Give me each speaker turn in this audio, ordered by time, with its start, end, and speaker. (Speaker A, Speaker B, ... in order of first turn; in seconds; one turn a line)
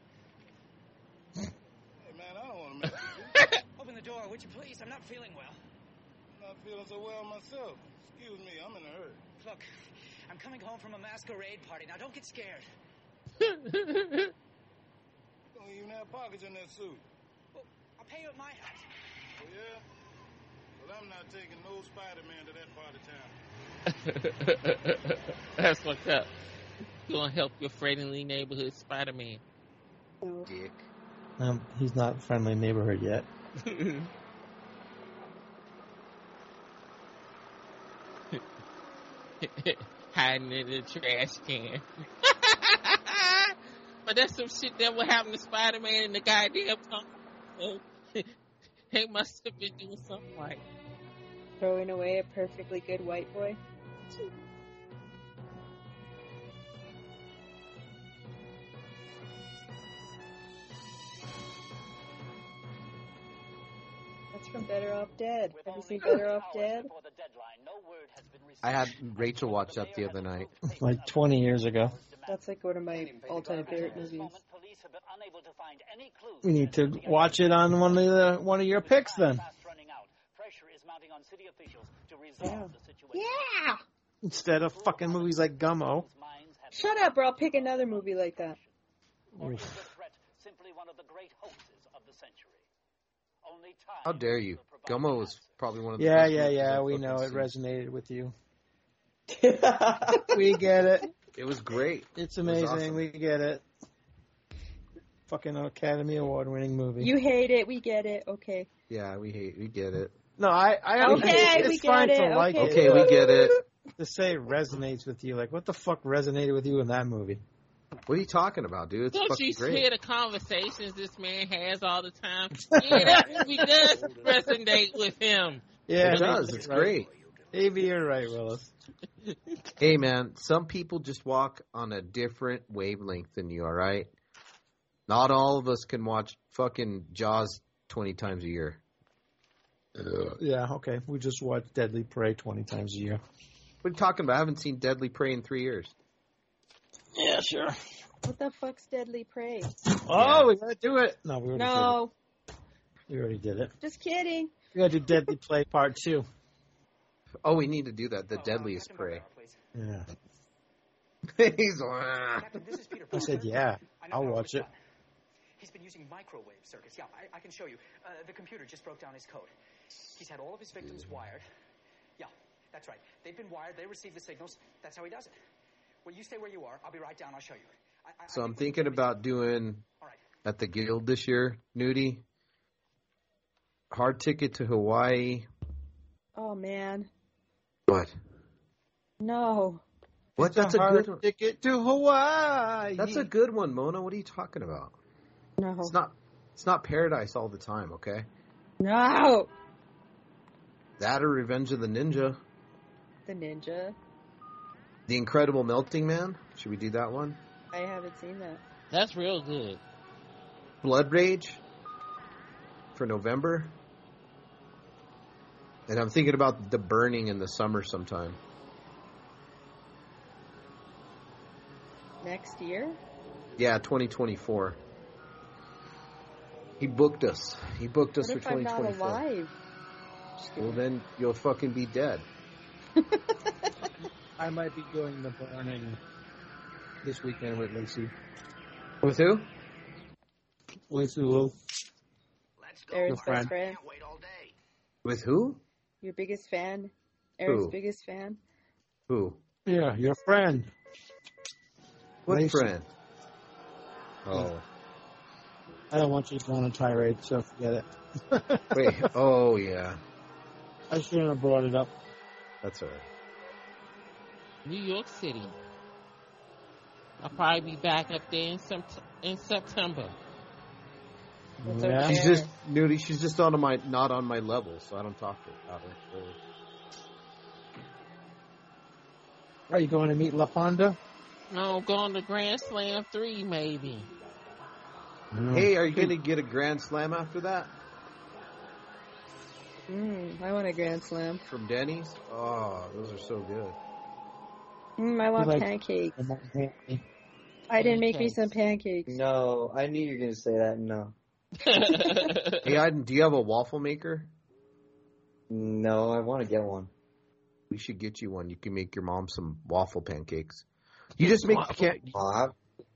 Speaker A: 2.0-3.3
Speaker B: 3.8-5.6
Speaker A: 6.3-9.2
Speaker B: 9.4-9.7
Speaker B: 10.3-12.7
Speaker C: 13.4-14.3
Speaker A: 15.5-17.0
Speaker B: 17.5-18.9
Speaker A: 19.4-19.8
Speaker A: 20.8-23.3
Speaker C: 23.9-26.3
Speaker C: 27.1-29.4
Speaker D: 30.2-30.5
Speaker E: 30.4-30.9
Speaker F: 31.4-33.3
Speaker C: 33.6-34.1
Speaker C: 39.4-48.3
Speaker C: 48.9-50.6
Speaker D: 51.6-53.6
Speaker D: 64.3-66.9
Speaker B: 65.5-83.3
Speaker E: 68.6-70.5
Speaker F: 70.7-72.0
Speaker D: 72.3-74.4
Speaker F: 76.4-79.4
Speaker D: 82.4-83.8
Speaker F: 84.2-86.1
Speaker B: 84.7-88.7
Speaker D: 86.7-88.6
Speaker B: 89.3-92.7
Speaker F: 89.4-89.7
Speaker B: 93.4-95.7
Speaker E: 94.0-97.5
Speaker F: 96.0-98.3
Speaker G: 99.3-100.4
Speaker F: 100.3-101.1
Speaker E: 101.3-103.1
Speaker F: 102.2-103.6
Speaker F: 105.3-107.1
Speaker D: 107.0-108.7
Speaker E: 108.9-110.2
Speaker F: 110.4-113.4
Speaker D: 111.0-113.5
Speaker E: 111.1-111.3
Speaker E: 112.5-113.6
Speaker F: 114.0-117.4
Speaker E: 118.1-119.8
Speaker C: 119.1-125.6
Speaker F: 122.5-123.4
Speaker H: 123.1-124.5
Speaker F: 125.9-127.0
Speaker E: 126.0-127.1
Speaker H: 126.4-127.6
Speaker F: 127.5-128.7
Speaker E: 129.8-134.1
Speaker E: 135.1-138.8
Speaker F: 140.3-143.2
Speaker E: 143.8-145.9
Speaker F: 147.2-147.8
Speaker D: 148.2-149.7
Speaker F: 150.0-152.0
Speaker E: 150.1-150.5
Speaker D: 151.5-152.1
Speaker F: 153.1-153.7
Speaker D: 153.8-154.5
Speaker F: 154.7-156.2
Speaker E: 157.4-159.2
Speaker B: 158.3-159.6
Speaker F: 159.7-160.1
Speaker E: 161.3-162.5
Speaker B: 162.4-164.7
Speaker F: 163.1-164.7
Speaker B: 165.6-169.5
Speaker B: 170.1-171.4
Speaker B: 172.2-175.3
Speaker B: 176.0-179.2
Speaker E: 178.3-179.8
Speaker E: 180.4-182.2
Speaker E: 183.9-185.5
Speaker D: 186.3-187.1
Speaker E: 187.9-188.1
Speaker D: 189.2-189.8
Speaker F: 190.4-193.3
Speaker E: 190.4-191.2
Speaker E: 193.0-194.9
Speaker D: 195.6-195.9
Speaker E: 195.8-198.3
Speaker D: 198.8-199.5
Speaker E: 201.0-202.4
Speaker D: 203.2-203.9
Speaker E: 205.1-207.4
Speaker D: 207.7-208.6
Speaker C: 208.9-209.8
Speaker E: 210.8-211.6
Speaker E: 212.9-213.8
Speaker E: 215.9-218.4
Speaker D: 222.2-223.0
Speaker E: 223.6-224.8
Speaker E: 226.8-229.2
Speaker D: 228.2-229.5
Speaker D: 230.4-230.8
Speaker E: 230.6-232.2
Speaker D: 233.0-233.7
Speaker F: 234.4-236.0
Speaker F: 237.0-238.1
Speaker E: 239.0-239.5
Speaker F: 240.9-241.5
Speaker H: 242.6-244.5
Speaker D: 242.9-243.8
Speaker F: 243.1-243.5
Speaker E: 245.0-245.6
Speaker D: 246.0-248.4
Speaker E: 247.4-247.8
Speaker E: 249.1-249.4
Speaker F: 249.7-250.7
Speaker E: 252.2-252.9
Speaker F: 252.3-252.7
Speaker E: 254.2-254.6
Speaker F: 255.9-259.1
Speaker E: 258.7-260.0
Speaker F: 260.9-261.9
Speaker E: 262.6-263.1
Speaker C: 264.6-265.6
Speaker C: 267.2-270.1
Speaker F: 271.6-272.2
Speaker D: 271.6-272.5
Speaker E: 272.0-276.4
Speaker F: 279.7-281.0
Speaker C: 281.5-284.1
Speaker F: 285.3-286.0
Speaker E: 285.5-287.7
Speaker D: 289.9-291.4
Speaker E: 291.4-293.8
Speaker D: 295.0-296.2
Speaker F: 295.4-297.0
Speaker D: 297.7-299.2
Speaker C: 297.8-298.5
Speaker G: 299.1-301.1
Speaker C: 301.6-302.6
Speaker E: 302.6-304.3
Speaker G: 305.5-306.9
Speaker E: 307.7-310.6
Speaker E: 311.2-312.1
Speaker G: 312.1-312.5